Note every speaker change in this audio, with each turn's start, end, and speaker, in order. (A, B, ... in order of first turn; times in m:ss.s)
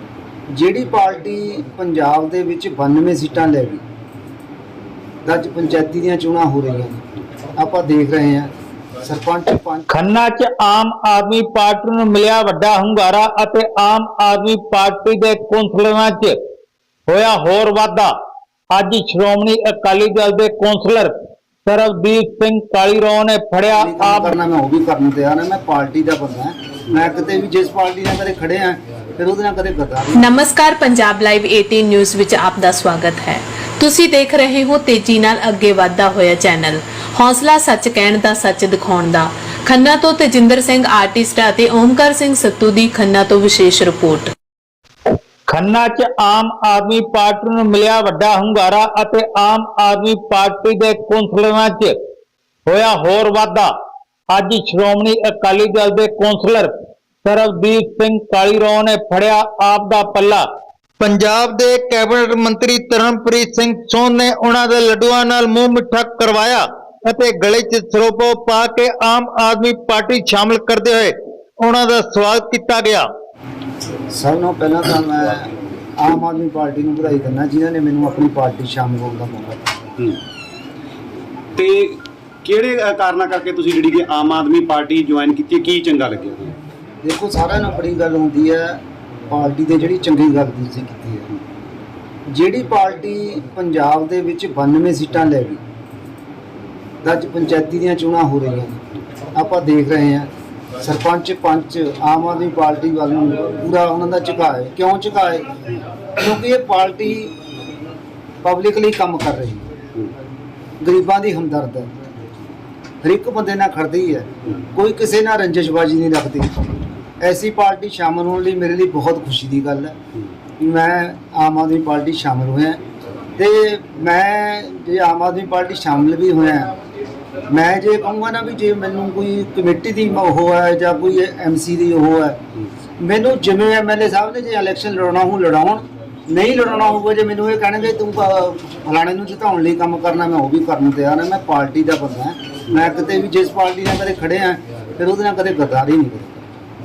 0:00.5-0:03.8 A
0:05.2-0:07.0 A
0:07.6-0:08.5 A
0:09.0-0:09.9 A
0:09.9-0:16.4 B
0:17.1-0:18.1 B
0:18.7-0:21.1 B
0:21.6-0:24.3 B
0:23.7-0:30.3 A
0:30.2-0:44.3 C
0:45.5-0:51.9 B
0:52.6-0:53.7 B
0:54.3-0:56.7 B
0:57.2-1:00.4 B
1:01.0-1:13.1 B
1:14.1-1:19.6 A
1:21.6-1:26.6 D
1:27.0-1:31.3 A
1:32.3-1:35.6 A
1:37.0-1:38.8 A
1:39.3-1:40.3 A
1:40.8-1:45.5 A
1:46.2-1:47.4 A
1:48.4-1:49.7 A
1:50.8-1:51.9 A
1:53.0-2:00.0 A
2:00.6-2:02.8 A
2:03.4-2:06.7 A
2:07.5-2:12.4 A
2:13.0-2:26.4 A